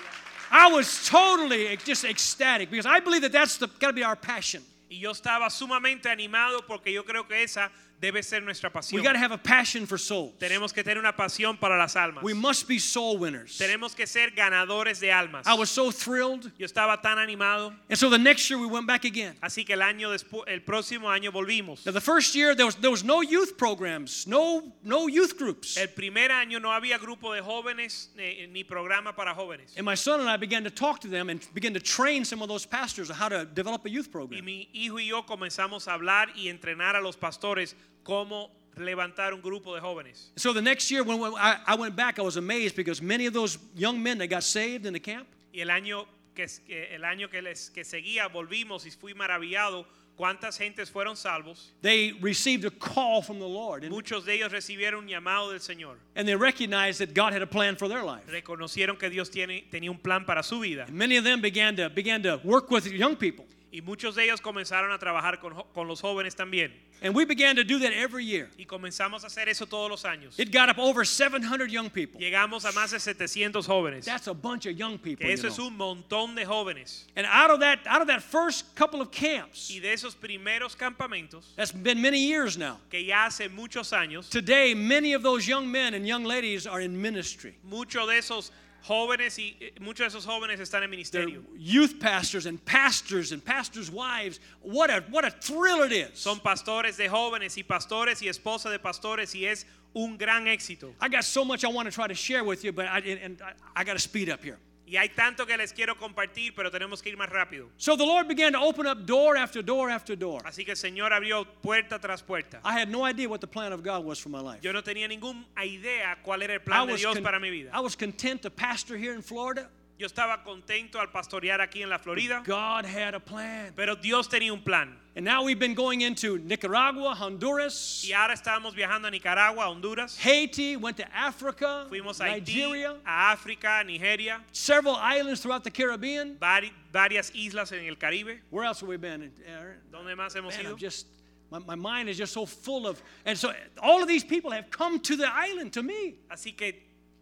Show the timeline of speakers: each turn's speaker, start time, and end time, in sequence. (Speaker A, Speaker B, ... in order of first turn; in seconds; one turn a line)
Speaker A: 0.5-4.7
Speaker B: 4.9-9.2
Speaker A: 8.9-10.6
Speaker B: 10.4-12.4
Speaker A: 12.2-13.7
Speaker B: 13.6-15.6
Speaker A: 15.4-16.5
Speaker B: 16.6-17.8
Speaker A: 17.9-19.4
Speaker B: 19.4-21.9
Speaker A: 21.8-25.8
Speaker B: 25.8-29.7
Speaker A: 29.7-34.4
Speaker B: 34.3-40.3
Speaker A: 40.4-45.3
Speaker B: 45.5-51.7
Speaker A: 51.8-54.0
Speaker B: 53.9-56.0
Speaker A: 56.1-58.3
Speaker B: 58.3-60.9
Speaker A: 60.9-63.5
Speaker B: 63.7-66.8
Speaker A: 67.0-68.5
Speaker B: 68.6-70.4
Speaker A: 70.4-72.2
Speaker B: 72.2-74.1
Speaker A: 74.0-75.6
Speaker B: 75.2-77.0
Speaker A: 77.1-79.8
Speaker B: 79.7-81.5
Speaker A: 81.6-82.8
Speaker B: 82.9-84.3
Speaker A: 84.3-87.5
Speaker B: 87.6-91.4
Speaker A: 91.1-96.3
Speaker B: 96.2-101.0
Speaker A: 101.0-104.6
Speaker B: 104.9-107.7
Speaker A: 107.8-110.5
Speaker B: 110.4-112.6
Speaker A: 112.6-114.7
Speaker B: 114.6-117.7
Speaker A: 116.7-119.7
Speaker B: 120.0-122.5
Speaker A: 122.1-123.8
Speaker B: 123.8-125.0
Speaker A: 125.1-128.1
Speaker B: 128.0-130.2
Speaker A: 130.2-133.0
Speaker B: 131.9-134.4
Speaker A: 134.5-136.4
Speaker B: 136.4-138.4
Speaker A: 138.5-139.9
Speaker B: 139.9-140.8
Speaker A: 140.5-146.2
Speaker B: 146.3-146.8